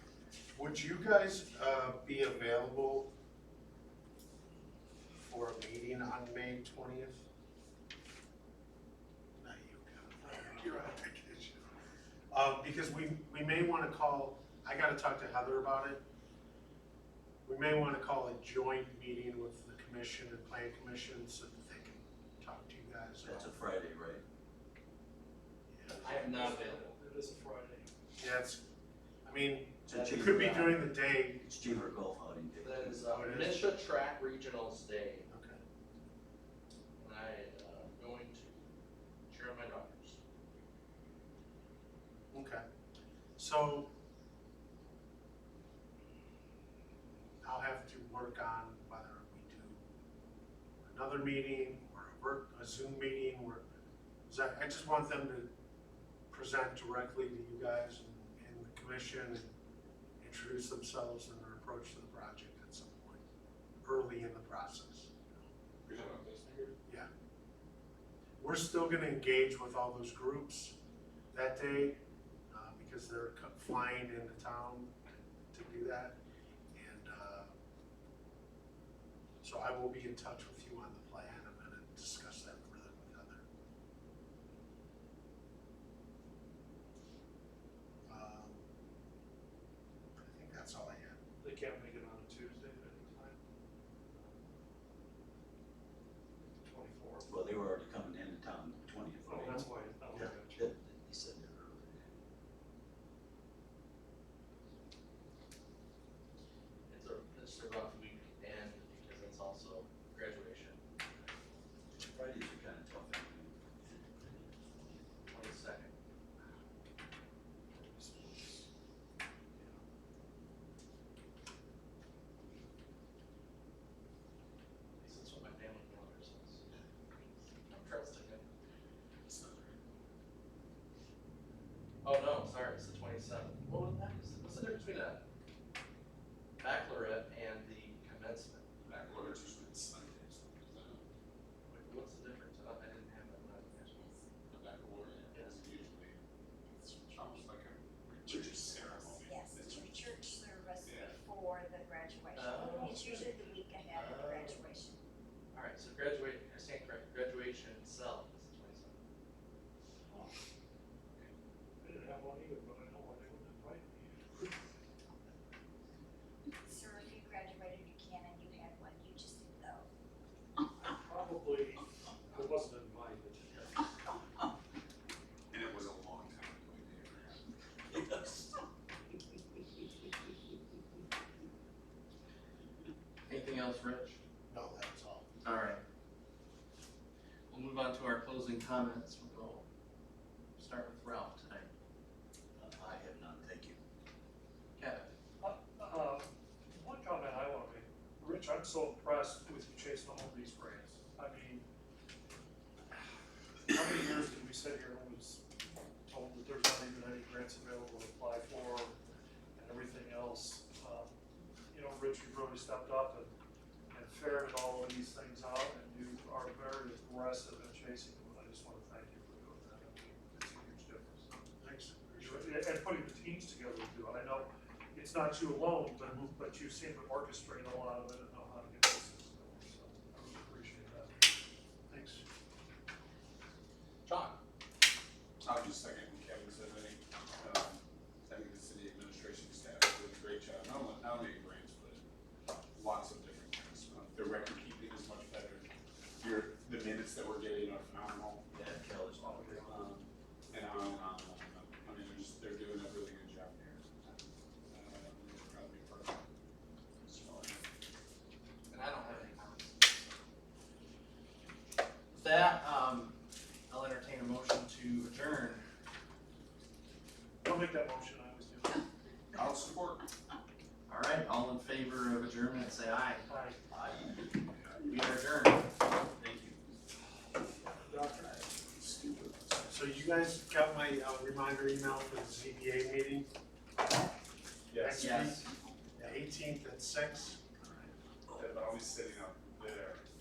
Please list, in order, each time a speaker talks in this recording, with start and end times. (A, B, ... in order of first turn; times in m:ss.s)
0:00.5-0:03.1 A
0:05.2-0:07.2 A
0:09.4-0:11.6 A
0:12.3-0:16.0 A
0:17.4-0:23.6 A
0:23.2-0:24.2 B
0:25.7-0:26.2 A
0:25.9-0:26.9 C
0:26.2-0:27.9 D
0:28.2-0:28.6 A
0:29.2-0:31.9 A
0:29.8-0:30.8 B
0:29.9-0:30.8 C
0:31.4-0:33.0 B
0:32.6-0:35.3 C
0:33.1-0:33.6 A
0:35.3-0:35.6 A
0:37.0-0:38.6 C
0:39.3-0:40.2 C
0:42.3-0:42.6 A
0:43.4-0:43.9 A
0:47.4-0:49.9 A
0:50.8-0:53.6 A
0:54.3-0:55.5 A
0:56.3-0:59.5 A
1:00.2-1:03.2 A
1:03.8-1:05.3 A
1:05.8-1:06.7 E
1:08.4-1:10.8 A
1:11.3-1:12.0 A
1:12.5-1:15.0 A
1:15.5-1:16.2 A
1:16.7-1:17.5 A
1:19.4-1:23.4 A
1:28.0-1:28.6 A
1:30.2-1:31.2 A
1:31.4-1:33.4 D
1:34.1-1:34.4 D
1:36.4-1:37.3 D
1:37.2-1:42.2 B
1:39.2-1:40.6 D
1:46.9-1:50.8 C
1:52.0-1:55.0 B
1:55.2-1:55.9 C
1:57.7-1:58.6 D
2:05.0-2:06.6 C
2:07.6-2:08.4 C
2:09.3-2:09.8 E
2:12.0-2:15.2 C
2:16.6-2:18.7 C
2:18.8-2:21.0 E
2:21.7-2:24.2 C
2:24.0-2:24.2 F
2:24.5-2:26.2 E
2:26.8-2:30.0 E
2:28.9-2:35.0 F
2:30.8-2:31.2 E
2:32.3-2:32.9 C
2:32.6-2:33.3 D
2:34.0-2:34.2 E
2:35.5-2:39.0 C
2:41.8-2:44.4 D
2:46.6-2:49.9 F
2:50.8-2:53.6 D
2:55.5-2:58.2 E
3:03.3-3:04.2 C
3:04.5-3:05.2 A
3:05.4-3:05.8 C
3:07.5-3:09.6 C
3:10.6-3:11.7 C
3:12.6-3:13.8 B
3:14.8-3:15.1 C
3:15.4-3:21.6 D
3:23.7-3:25.4 D
3:26.1-3:29.0 D
3:29.6-3:31.1 D
3:31.7-3:33.3 D
3:33.9-3:41.4 D
3:41.6-3:42.6 A
3:42.2-3:51.3 D
3:46.0-3:46.3 A
3:51.9-3:52.2 D
3:54.0-3:54.4 C
3:55.4-4:02.0 E
4:02.8-4:08.4 E
4:08.5-4:09.9 B
4:09.2-4:09.7 D
4:09.6-4:16.2 E
4:17.0-4:17.6 E
4:18.7-4:20.2 C
4:22.1-4:23.2 C
4:23.7-4:25.6 C
4:27.4-4:28.8 D
4:29.3-4:30.0 E
4:30.9-4:33.2 C
4:33.2-4:33.6 D
4:33.7-4:34.2 B
4:34.8-4:35.6 C
4:36.2-4:36.6 B
4:37.7-4:38.5 D
4:38.6-4:39.8 E
4:39.7-4:43.3 A
4:44.7-4:45.1 E
4:44.8-4:45.4 A
4:45.0-4:45.4 C
4:46.0-4:47.4 A
4:48.3-4:50.0 E